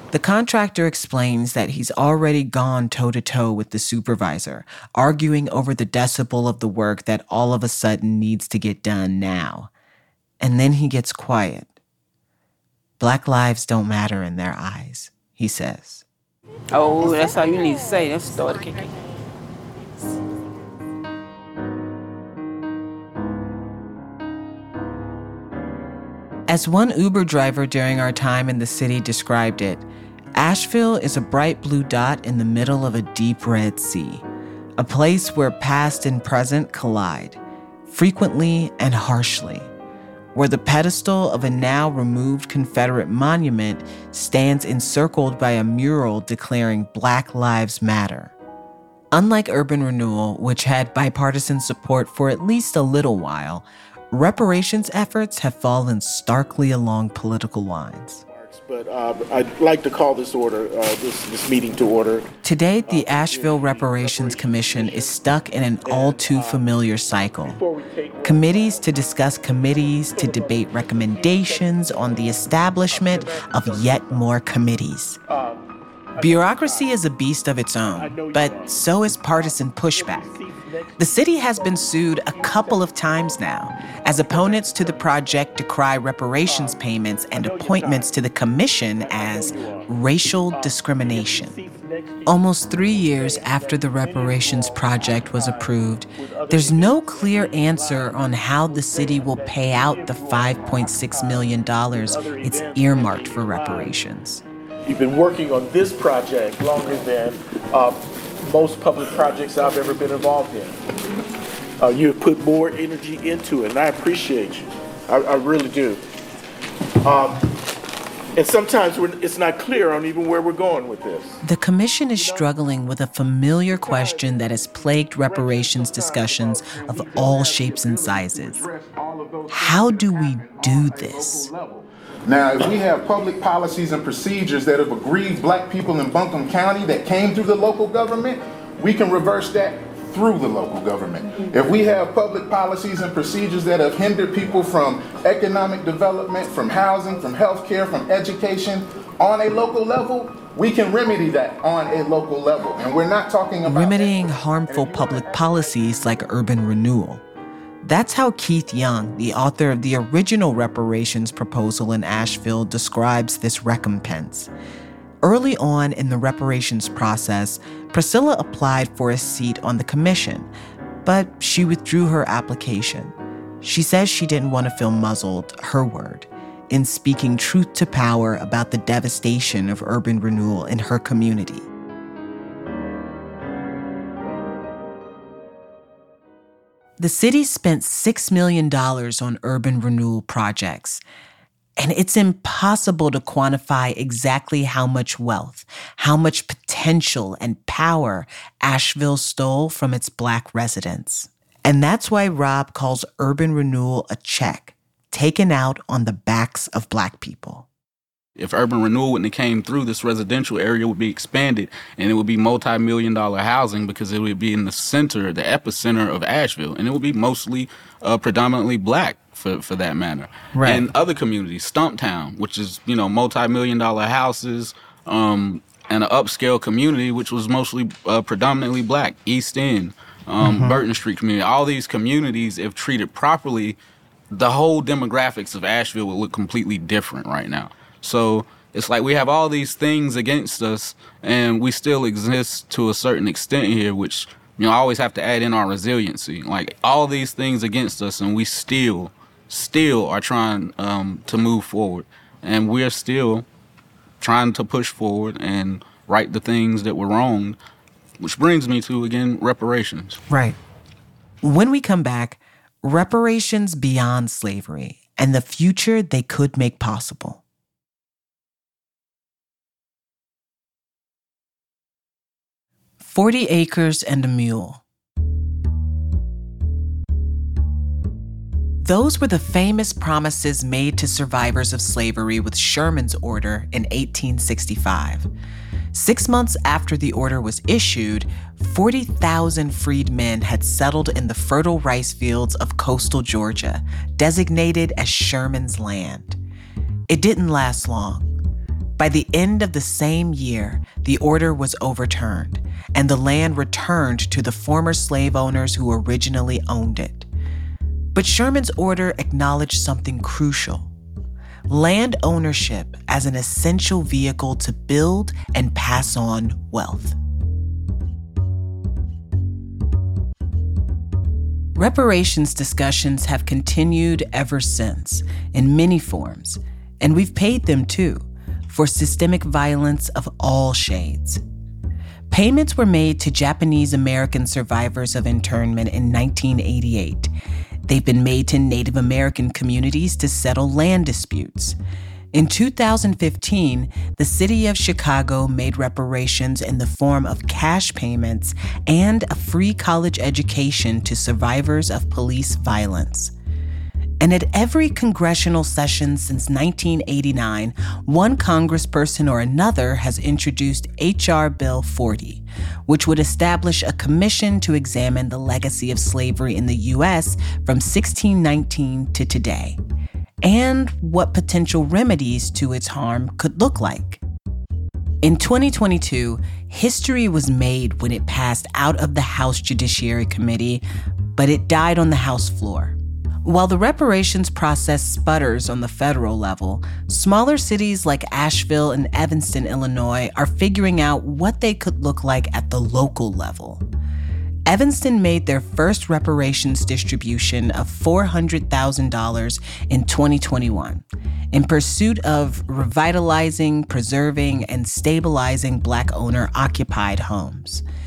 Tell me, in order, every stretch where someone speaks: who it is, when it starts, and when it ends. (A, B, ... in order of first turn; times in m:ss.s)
0:00.1-0:09.7 A
0:10.4-0:11.7 A
0:13.0-0:16.0 A
0:16.7-0:18.9 B
0:26.5-0:29.8 A
0:30.4-0:34.2 A
0:34.8-0:39.7 A
0:40.3-0:48.3 A
0:49.1-0:58.2 A
0:58.3-1:02.3 C
1:02.4-1:07.6 A
1:02.8-1:05.3 C
1:05.8-1:06.7 C
1:07.4-1:12.4 C
1:08.2-1:15.2 A
1:12.9-1:14.3 C
1:15.3-1:17.0 C
1:16.2-1:20.3 A
1:17.9-1:23.4 C
1:21.0-1:31.6 A
1:24.0-1:25.4 C
1:26.4-1:26.8 C
1:27.3-1:28.2 C
1:29.0-1:29.9 C
1:30.5-1:44.0 C
1:32.2-1:44.4 A
1:44.9-1:50.8 C
1:51.8-1:56.0 C
1:57.0-1:57.5 C
1:58.4-2:01.4 C
2:01.4-2:08.7 A
2:02.2-2:02.5 C
2:03.7-2:07.8 C
2:07.2-2:34.2 D
2:09.5-2:11.5 A
2:33.6-2:37.2 A
2:34.7-2:35.6 D
2:34.9-2:35.7 C
2:37.8-2:44.5 A
2:45.2-2:50.5 A
2:51.0-3:01.7 A
3:07.0-3:11.0 A
3:11.8-3:27.7 A
3:28.4-3:53.8 E
3:40.5-3:40.8 A
3:50.4-3:50.8 A
3:54.3-4:13.5 E
4:14.2-4:17.6 E
4:18.2-4:20.2 E
4:20.3-4:20.6 A
4:21.4-4:27.4 A
4:33.0-4:34.8 A
4:38.8-4:45.3 A
4:45.9-4:56.4 A
4:57.1-4:58.3 A
4:59.0-5:07.3 A
5:08.2-5:10.9 A
5:11.7-5:17.2 A
5:21.8-5:31.4 A
5:32.3-5:37.3 A
5:37.9-5:41.8 A
5:42.3-5:53.3 A
5:54.2-6:09.8 A
6:10.4-6:14.2 A
6:15.2-6:20.8 A
6:21.4-6:33.8 A
6:34.7-6:47.8 A